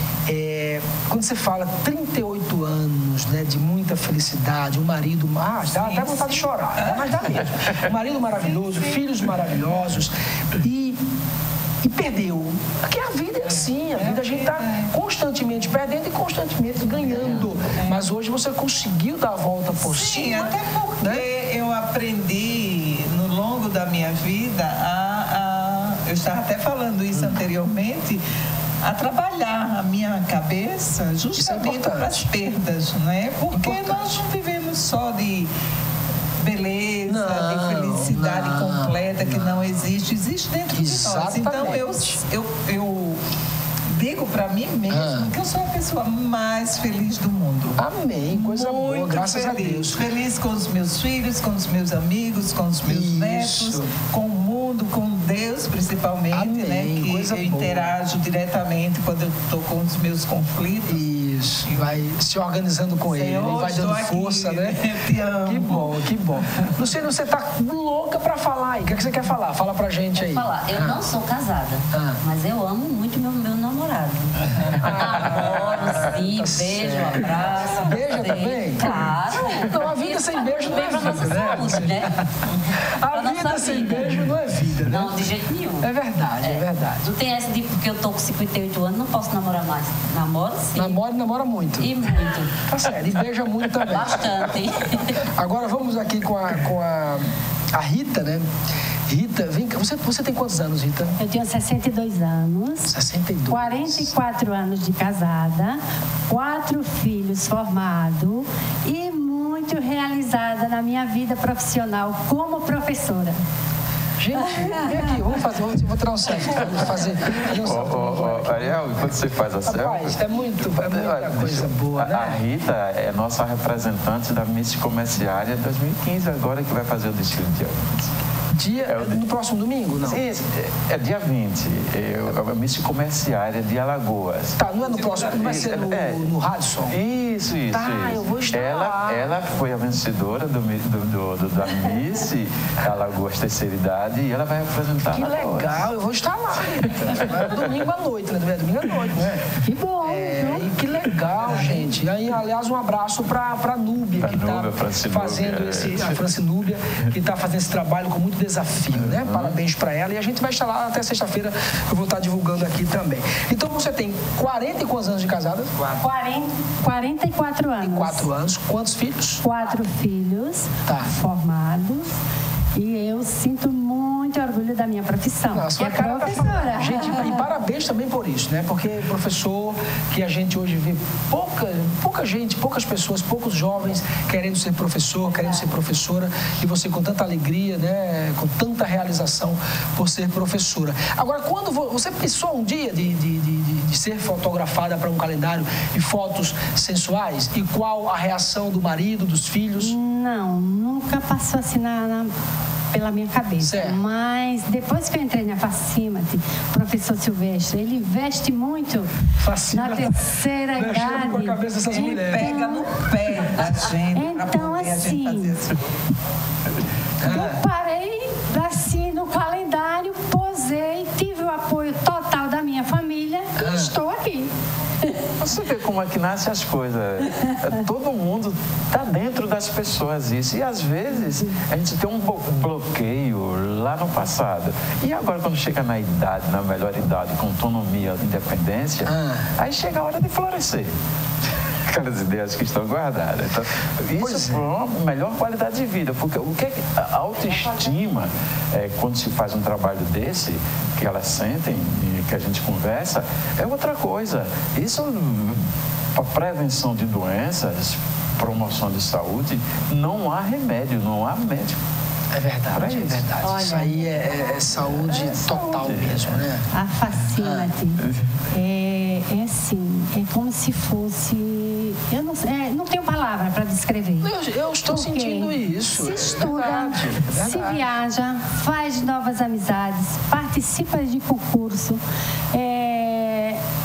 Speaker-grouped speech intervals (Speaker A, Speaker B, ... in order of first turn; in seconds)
Speaker A: 0.3-11.0, 11.8-21.2, 31.3-32.3, 33.5-34.2, 37.1-39.6, 40.7-42.2, 44.9-45.3, 47.8-50.0, 52.9-53.9, 56.3-57.9, 60.9-64.8, 65.5-71.0, 71.9-72.2, 74.8-82.1, 83.0-85.1, 85.8-87.1, 90.7-91.9, 92.7-94.2, 95.3-98.5, 99.1-101.2, 102.9-104.1, 114.2-122.4, 128.5-130.2, 134.6-137.0, 137.7-139.4, 145.1-149.4, 150.0-165.7, 167.8-169.4, 175.5-199.9, 203.6-204.0, 209.4-210.1, 210.8-212.5, 217.2-217.6, 223.6-223.9, 239.1-239.5, 244.2-244.7, 262.3-266.6, 267.4-267.7, 274.2-277.9
Speaker B: 5.6-7.5, 8.2-9.1, 13.4-14.9, 16.9-18.1, 19.7-28.2, 28.8-35.5, 36.4-43.2, 43.9-60.9, 61.6-62.0, 63.0-65.9, 134.7-135.8, 211.8-215.8
Speaker C: 17.1-17.7, 117.4-128.1, 128.9-129.2, 130.0-134.6, 135.2-136.3, 136.8-145.9, 146.9-147.5, 154.2-156.2, 159.0-159.6, 225.4-240.9, 241.9-261.8, 262.7-263.3, 265.1-266.4, 268.0-268.4
Speaker D: 70.2-74.3, 74.9-82.1, 83.1-84.2, 84.9-85.9, 86.4-91.0, 91.8-92.5, 93.9-95.2
Speaker E: 101.2-103.0, 103.5-113.4, 149.6-150.7, 166.0-168.3, 169.4-172.1, 172.7-177.5, 185.2-185.7, 199.8-202.3, 202.9-209.1, 209.7-213.1, 214.1-215.6, 217.2-224.5, 263.4-265.8, 266.7-268.0, 268.5-274.3, 274.9-282.0, 282.5-283.6